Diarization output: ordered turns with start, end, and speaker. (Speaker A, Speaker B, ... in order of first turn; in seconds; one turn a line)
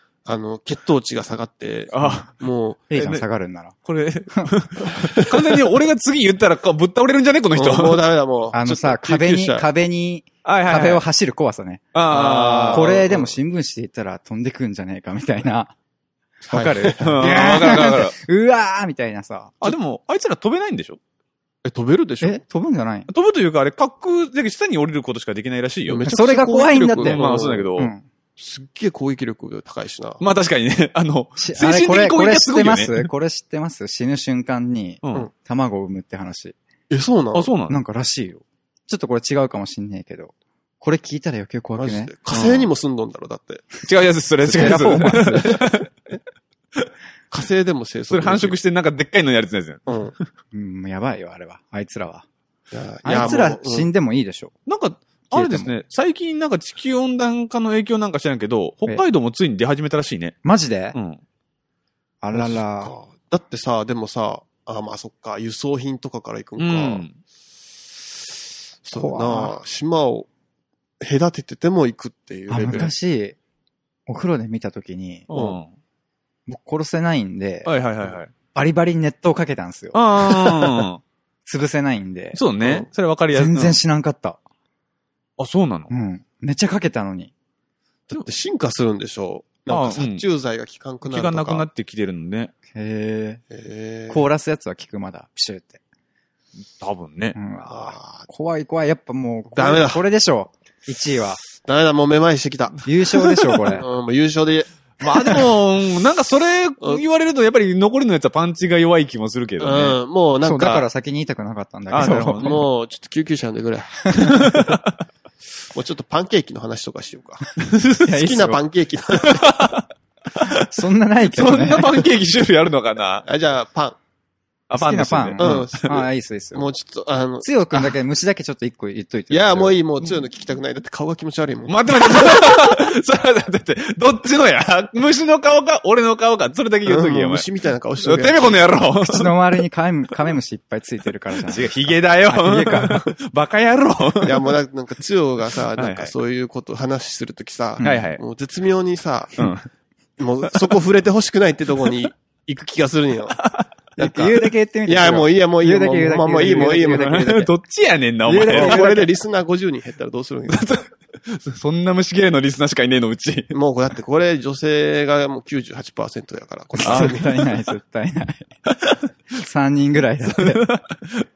Speaker A: 0.2-2.8
Speaker B: 1.9-2.3
Speaker C: 2.9-3.8
Speaker B: 2.9-3.2
Speaker B: 3.8-8.0
Speaker A: 5.0-5.6
Speaker A: 7.5-9.7
Speaker C: 8.5-11.8
Speaker B: 10.4-11.0
Speaker B: 11.9-12.9
Speaker A: 12.1-13.3
Speaker C: 12.7-15.7
Speaker C: 16.4-19.7
Speaker A: 16.4-17.6
Speaker B: 17.0-18.1
Speaker B: 19.6-21.0
Speaker A: 21.6-22.4
Speaker C: 22.2-23.1
Speaker B: 23.1-26.1
Speaker A: 25.9-27.7
Speaker C: 26.1-27.2
Speaker B: 27.0-27.9
Speaker C: 27.8-28.0
Speaker A: 28.4-30.2
Speaker B: 30.2-33.1
Speaker C: 31.4-36.5
Speaker B: 35.0-35.3
Speaker A: 36.9-37.5
Speaker B: 37.3-37.8
Speaker C: 37.7-42.1
Speaker A: 41.7-43.8
Speaker B: 42.3-42.7
Speaker B: 43.8-45.9
Speaker C: 44.5-45.6
Speaker A: 47.3-48.6
Speaker B: 48.1-50.0
Speaker A: 49.9-50.1
Speaker C: 50.5-52.2
Speaker A: 52.7-53.9
Speaker C: 53.0-54.5
Speaker B: 54.6-60.4
Speaker C: 55.3-55.7
Speaker C: 60.4-61.0
Speaker B: 60.9-61.2
Speaker C: 62.2-62.9
Speaker A: 62.3-67.0
Speaker B: 66.6-67.2
Speaker A: 68.8-70.3
Speaker C: 68.9-69.6
Speaker A: 71.0-72.9
Speaker C: 72.5-73.4
Speaker C: 74.1-75.3
Speaker B: 75.3-75.7
Speaker A: 75.3-75.6
Speaker C: 76.5-77.7
Speaker B: 77.7-78.3
Speaker C: 78.5-80.7
Speaker B: 79.9-81.0
Speaker C: 81.5-82.4
Speaker B: 82.3-83.8
Speaker A: 82.6-82.9
Speaker C: 83.3-84.4
Speaker B: 85.4-85.9
Speaker C: 85.9-87.3
Speaker A: 88.1-91.6
Speaker B: 89.7-90.2
Speaker B: 91.0-92.5
Speaker C: 92.7-93.4
Speaker A: 93.5-94.2
Speaker C: 94.1-95.8
Speaker B: 96.6-97.4
Speaker C: 97.3-101.4
Speaker A: 97.7-98.2
Speaker A: 99.5-100.0
Speaker A: 101.6-102.8
Speaker C: 102.8-103.8
Speaker B: 103.2-103.7
Speaker A: 103.8-104.7
Speaker B: 105.0-110.0
Speaker A: 109.6-110.8
Speaker C: 110.4-112.6
Speaker B: 111.9-112.6
Speaker A: 112.0-114.8
Speaker B: 114.2-114.9
Speaker A: 115.7-117.5
Speaker B: 117.6-118.0
Speaker C: 118.0-118.6
Speaker A: 118.1-119.7
Speaker B: 119.3-120.7
Speaker C: 120.5-122.0
Speaker B: 121.3-123.3
Speaker A: 123.2-124.0
Speaker B: 124.7-125.9
Speaker C: 124.7-126.7
Speaker A: 125.4-127.9
Speaker C: 127.4-129.8
Speaker A: 129.3-132.4
Speaker B: 131.7-137.5
Speaker A: 136.8-138.6
Speaker B: 138.0-139.3
Speaker C: 139.0-143.1
Speaker B: 141.4-144.5
Speaker A: 144.2-149.5
Speaker B: 145.8-146.1
Speaker C: 147.8-148.1
Speaker B: 147.8-148.2
Speaker B: 149.4-149.7
Speaker A: 150.2-153.4
Speaker C: 154.0-157.3
Speaker A: 154.0-157.5
Speaker B: 156.9-158.9
Speaker C: 158.2-159.1
Speaker A: 158.4-160.7
Speaker B: 160.5-163.5
Speaker A: 163.5-167.3
Speaker C: 166.8-168.5
Speaker B: 166.8-167.4
Speaker C: 169.3-170.6
Speaker B: 170.4-171.2